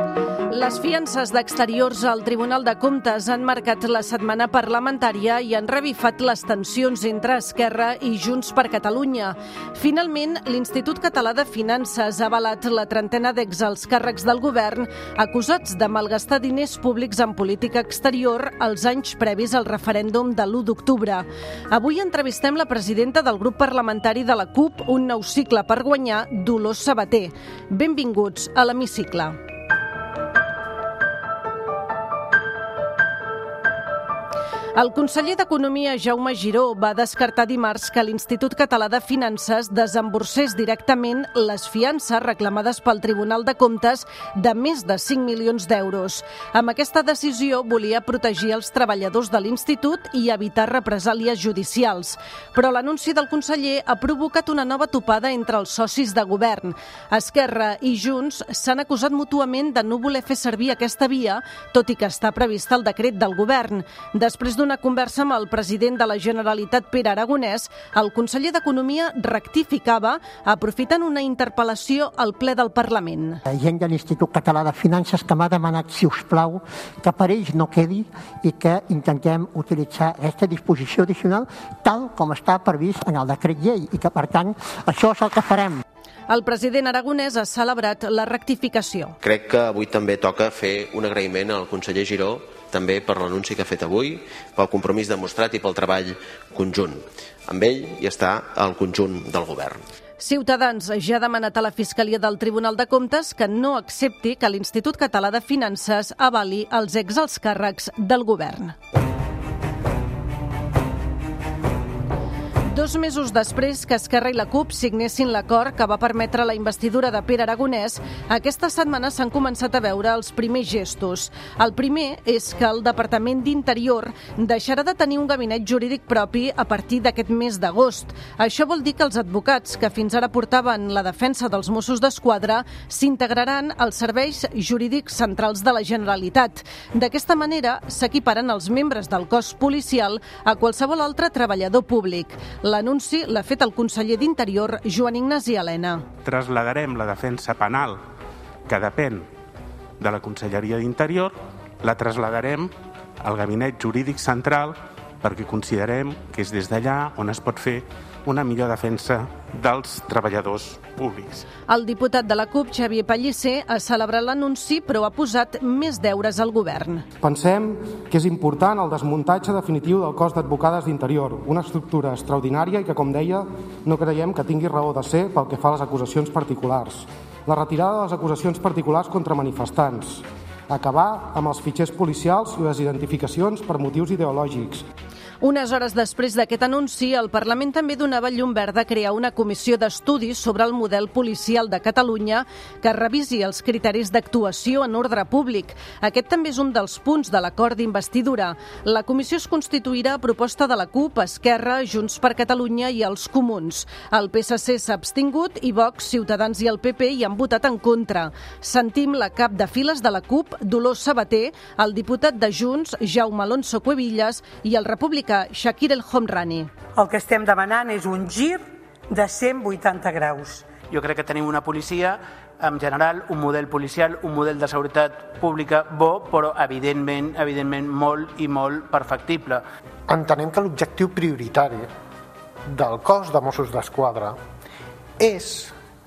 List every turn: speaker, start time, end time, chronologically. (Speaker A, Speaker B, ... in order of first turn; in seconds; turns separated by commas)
Speaker A: 0.5-29.3, Speaker A: 34.7-73.4, Speaker B: 73.5-85.8, Speaker A: 86.3-89.2, Speaker C: 89.2-99.8, Speaker A: 100.2-108.7, Speaker A: 112.7-146.1, Speaker D: 146.2-147.9, Speaker D: 148.7-149.2, Speaker D: 150.0-151.3, Speaker D: 151.8-152.6, Speaker D: 153.2-154.7, Speaker D: 155.2-161.4, Speaker A: 161.7-167.1, Speaker E: 167.2-184.8, Speaker A: 185.4-216.7, Speaker F: 216.9-220.7, Speaker G: 220.9-229.6, Speaker H: 230.1-231.9, Speaker H: 232.7-234.4, Speaker H: 235.2-235.7